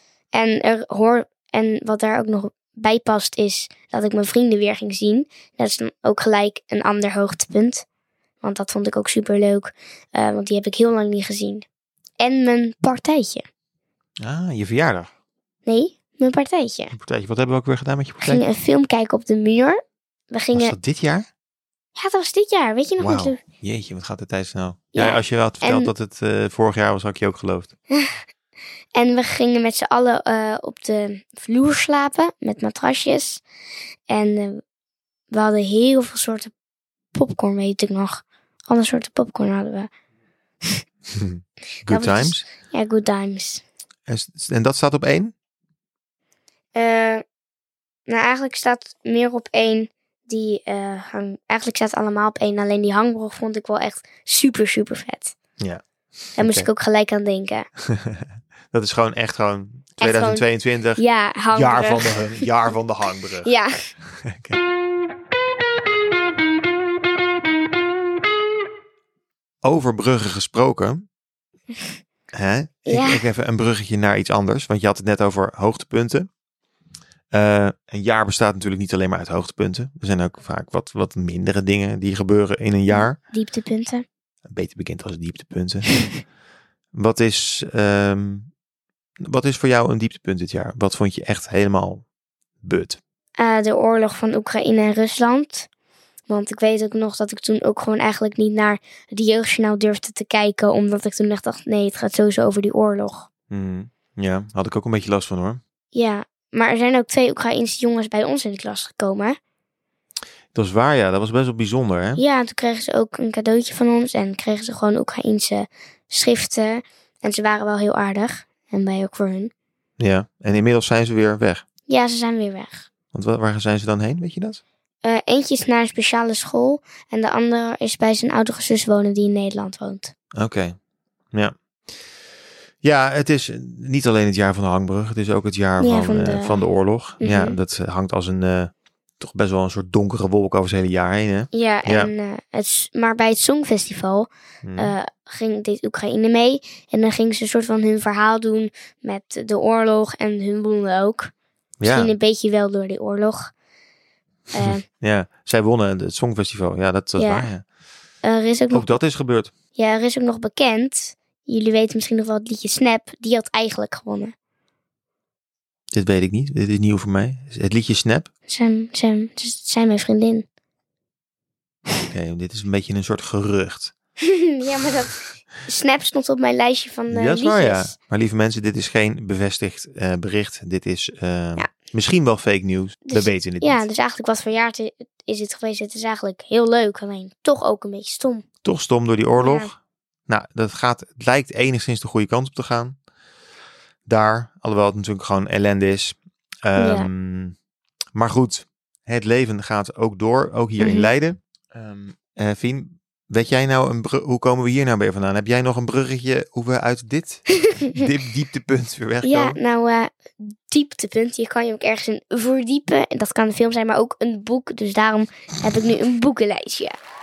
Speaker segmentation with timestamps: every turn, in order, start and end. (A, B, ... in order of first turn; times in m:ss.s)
0:00.3-0:07.8 A
0:08.4-0:11.7 A
0:12.2-0:13.4 A
0:14.2-0:15.1 B
0:15.7-0:16.9 A
0:16.9-0:18.4 B
0:18.2-0:19.8 A
0:20.3-0:20.8 A
0:20.5-0:21.3 B
0:22.0-0:23.4 A
0:23.0-0:27.7 B
0:24.9-0:25.9 A
0:27.9-0:28.2 A
0:29.0-0:33.4 A
0:34.1-0:34.6 A
0:35.3-0:36.5 A
0:37.1-0:39.9 A
0:41.1-0:42.4 B
0:41.9-0:43.6 A
0:44.1-0:45.3 B
0:46.8-0:47.2 A
0:48.1-0:55.4 A
0:56.4-0:56.7 B
0:56.4-0:57.7 A
0:58.0-1:03.5 B
1:00.0-1:02.5 A
1:03.4-1:03.9 A
1:04.1-1:04.6 B
1:09.6-1:11.1 B
1:12.3-1:16.3 B
1:12.9-1:13.2 A
1:17.3-1:23.2 B
1:22.9-1:24.0 A
1:24.5-1:25.9 B
1:27.0-1:28.5 B
1:29.2-1:32.0 B
1:32.6-1:33.0 B
1:33.4-1:35.7 A
1:36.3-1:43.3 A
1:43.5-1:45.6 B
1:45.9-1:49.4 A
1:50.5-1:52.2 B
1:52.2-1:59.5 A
2:00.0-2:01.6 B
2:01.9-2:02.9 A
2:03.1-2:04.6 B
2:05.0-2:10.1 A
2:10.4-2:10.8 B
2:12.8-2:22.1 B
2:15.8-2:16.6 A
2:17.2-2:17.6 A
2:21.5-2:31.3 A
2:24.6-2:25.0 B
2:31.8-2:32.1 B
2:31.8-2:33.5 A
2:34.5-2:34.8 A
2:34.6-2:37.6 B
2:37.2-2:37.5 A
2:38.2-2:39.0 A
2:38.7-2:39.5 B
2:39.7-2:44.3 A
2:45.9-2:48.3 B
2:48.5-2:50.4 A
2:52.1-2:53.9 B
2:54.2-2:58.0 A
2:57.1-3:03.8 B
3:03.1-3:08.5 A
3:08.6-3:09.8 B
3:09.4-3:09.7 A
3:10.3-3:13.0 B
3:14.1-3:17.5 B
3:16.8-3:17.1 A
3:18.2-3:29.6 B
3:20.8-3:21.1 A
3:29.2-3:37.0 A